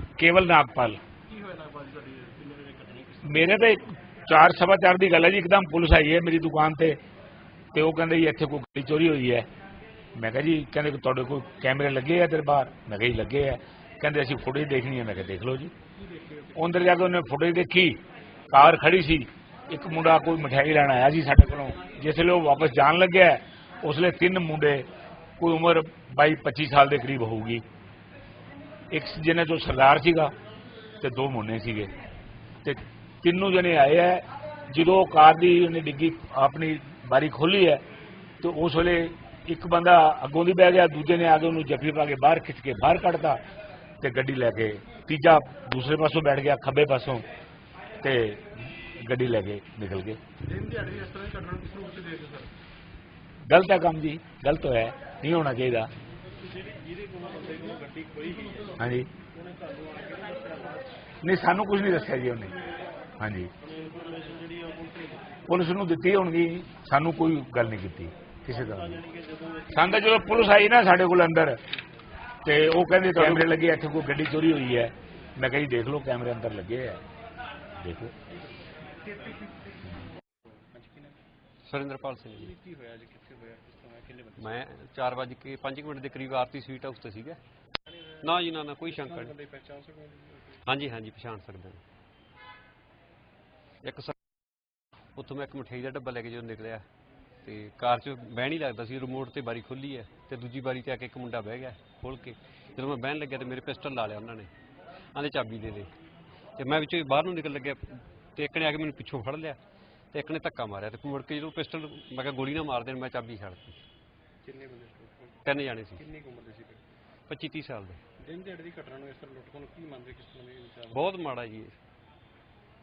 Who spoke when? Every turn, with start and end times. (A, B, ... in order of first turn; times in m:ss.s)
0:00.2-0:01.0 A
0:01.3-0:03.4 B
0:03.2-0:07.0 A
0:07.7-0:09.5 A
0:10.2-0:15.7 A
0:16.1-0:16.6 B
0:16.6-0:18.0 A
0:18.5-0:24.9 A
0:25.4-0:27.6 A
0:28.9-0:30.3 A
0:31.0-0:31.9 A
0:32.6-0:37.8 A
0:38.4-0:43.4 A
0:44.0-0:47.2 A
0:48.0-0:50.2 A
0:50.4-0:52.5 B
0:53.5-0:55.9 A
0:56.4-1:00.9 B
0:58.8-0:59.1 A
1:01.2-1:02.6 A
1:03.2-1:03.5 A
1:03.6-1:05.2 B
1:05.5-1:09.1 A
1:08.7-1:09.7 B
1:09.7-1:11.6 A
1:12.4-1:17.0 A
1:17.8-1:18.1 A
1:20.7-1:21.2 B
1:21.7-1:22.6 C
1:22.4-1:24.6 B
1:24.4-1:27.4 C
1:28.2-1:29.4 C
1:28.9-1:30.6 B
1:30.6-1:31.8 C
1:33.8-1:34.2 C
1:35.2-1:36.8 C
1:37.4-1:44.5 C
1:45.1-1:45.9 C
1:46.6-1:49.6 C
1:50.1-1:53.8 C
1:54.4-1:55.4 B
1:55.4-1:56.1 C
1:55.9-1:56.8 B
1:57.3-1:58.0 C
1:58.2-2:01.1 B
2:00.9-2:01.8 C